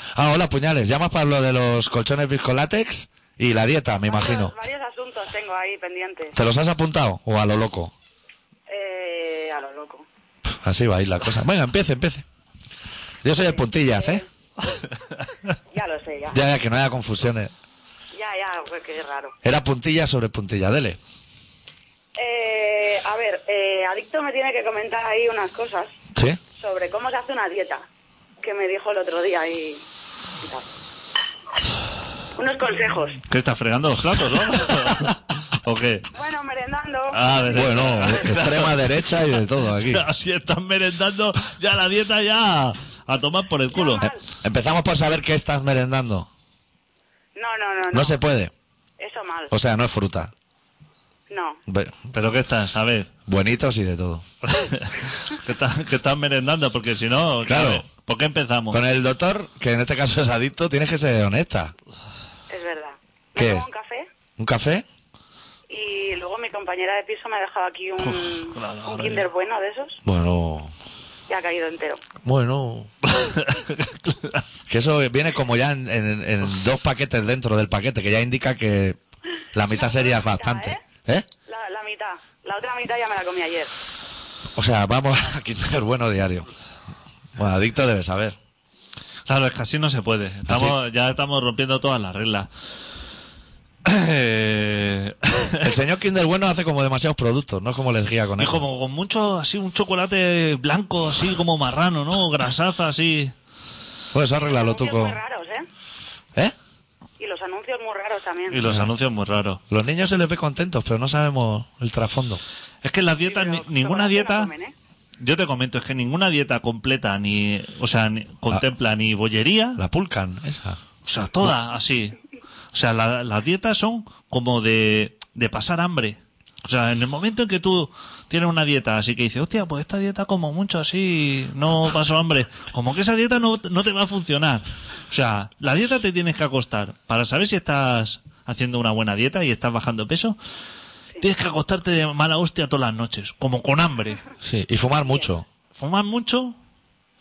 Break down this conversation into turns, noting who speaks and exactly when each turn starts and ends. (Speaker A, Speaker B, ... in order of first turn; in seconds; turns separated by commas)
Speaker A: 0.1-4.5, Speaker B: 4.1-6.3, Speaker A: 6.3-7.9, Speaker B: 8.7-10.1, Speaker A: 10.5-12.2, Speaker A: 13.2-14.2, Speaker B: 13.4-14.2, Speaker B: 15.7-16.4, Speaker A: 16.3-17.5, Speaker B: 18.1-19.3, Speaker A: 19.4-21.0, Speaker B: 22.1-25.9, Speaker A: 26.1-26.4, Speaker B: 26.6-27.8, Speaker B: 28.4-29.8, Speaker B: 30.4-30.7, Speaker B: 32.4-33.2, Speaker C: 33.3-36.1, Speaker B: 36.1-37.7, Speaker C: 37.1-38.8, Speaker A: 37.5-40.0, Speaker C: 39.9-44.0, Speaker B: 43.7-44.2, Speaker A: 44.0-46.3, Speaker B: 47.4-48.1, Speaker A: 47.9-48.5, Speaker B: 49.0-49.5, Speaker A: 49.5-50.3, Speaker B: 51.3-51.6, Speaker A: 51.7-52.0, Speaker C: 52.1-53.1, Speaker A: 53.3-54.2, Speaker C: 54.4-58.8, Speaker A: 57.4-57.8, Speaker A: 58.7-61.7, Speaker B: 62.5-64.1, Speaker A: 63.4-63.6, Speaker A: 64.4-64.8, Speaker B: 65.7-70.0, Speaker C: 68.0-69.3, Speaker A: 70.0-70.7, Speaker B: 71.3-72.0, Speaker A: 72.2-72.9, Speaker C: 73.0-74.4, Speaker A: 74.7-79.0, Speaker A: 79.5-81.2, Speaker B: 79.7-80.8, Speaker B: 81.5-83.7, Speaker A: 84.5-86.5, Speaker A: 87.3-88.3, Speaker C: 89.3-92.5, Speaker A: 90.5-90.8, Speaker C: 93.8-95.8, Speaker A: 95.6-98.6, Speaker C: 98.4-103.3, Speaker A: 104.1-105.2, Speaker B: 104.5-105.7, Speaker B: 107.2-108.6, Speaker C: 108.5-109.6, Speaker A: 109.7-112.4, Speaker C: 112.8-114.5, Speaker B: 113.3-114.7, Speaker C: 115.2-119.8, Speaker A: 119.8-120.8, Speaker C: 121.0-122.2, Speaker C: 122.7-140.4, Speaker C: 141.2-144.2, Speaker A: 144.4-145.4, Speaker C: 145.7-146.6